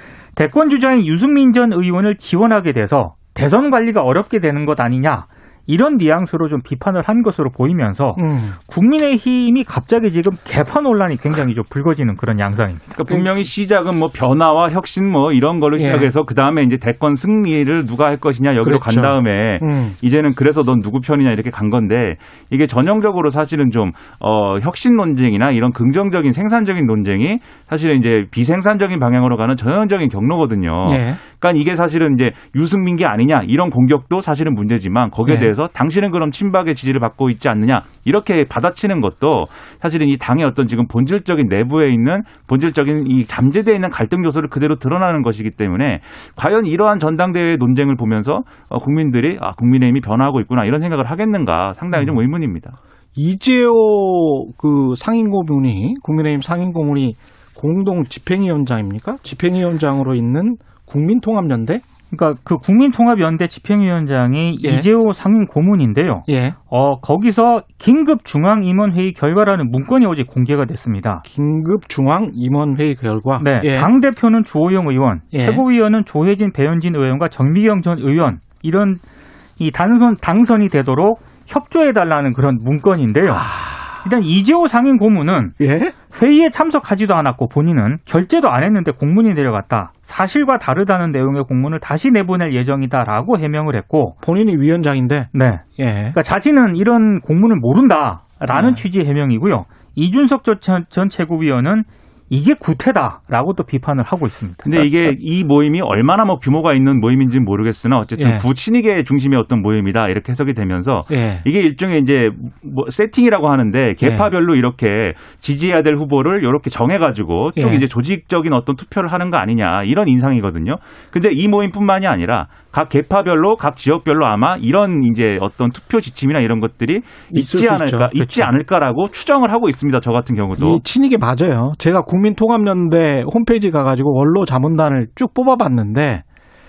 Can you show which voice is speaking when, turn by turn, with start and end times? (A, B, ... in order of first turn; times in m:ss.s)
0:00.4-0:12.9 A
0:08.2-0:08.6 B
0:13.0-0:52.8 C
0:15.8-0:16.1 B
0:18.6-0:20.0 B
0:30.8-0:31.2 B
0:35.3-0:35.5 B
0:53.2-1:01.8 B
1:02.1-1:11.2 A
1:04.6-1:04.9 B
1:06.3-1:06.6 B
1:11.2-1:13.9 B
1:13.4-1:19.0 A
1:15.3-1:15.6 B
1:19.6-1:23.5 A
1:23.3-1:24.0 B
1:24.0-1:25.6 A
1:25.6-1:26.0 B
1:26.1-1:34.2 A
1:34.2-1:36.2 B
1:35.3-1:44.9 A
1:44.6-2:10.8 C
1:48.2-1:48.4 B
1:51.1-1:51.4 B
1:54.0-1:54.3 B
1:57.6-1:57.8 B
2:07.3-2:08.1 B
2:08.2-2:08.5 A
2:10.6-2:16.2 B